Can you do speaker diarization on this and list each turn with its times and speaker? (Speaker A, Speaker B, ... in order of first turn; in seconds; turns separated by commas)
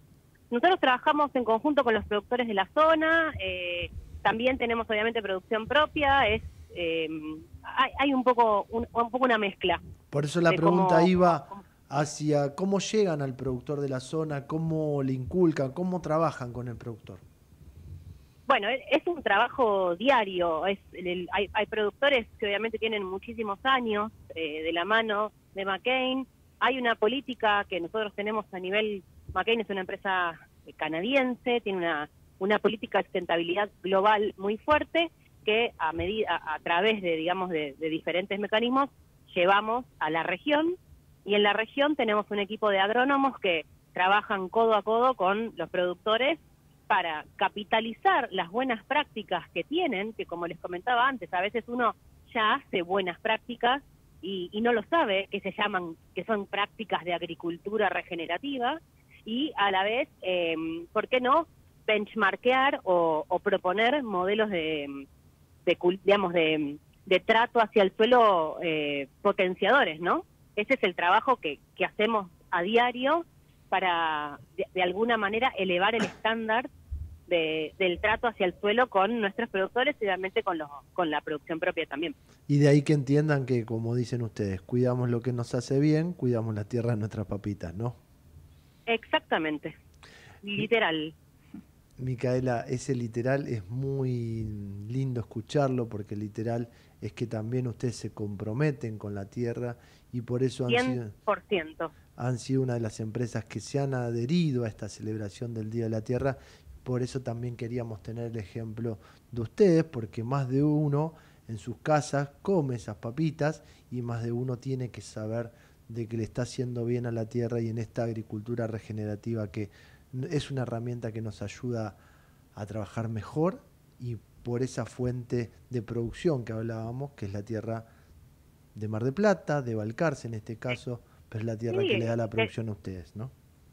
Speaker A: 0.5-9.8, Speaker B: 10.1-17.2, Speaker A: 10.5-11.7, Speaker A: 18.5-65.0, Speaker A: 65.7-76.7, Speaker A: 77.3-82.1, Speaker B: 82.5-88.0, Speaker A: 88.9-89.8, Speaker A: 90.4-91.1, Speaker B: 92.0-101.1, Speaker A: 100.7-101.9, Speaker B: 102.1-122.0, Speaker B: 122.5-127.9, Speaker B: 128.7-133.3, Speaker A: 131.7-132.5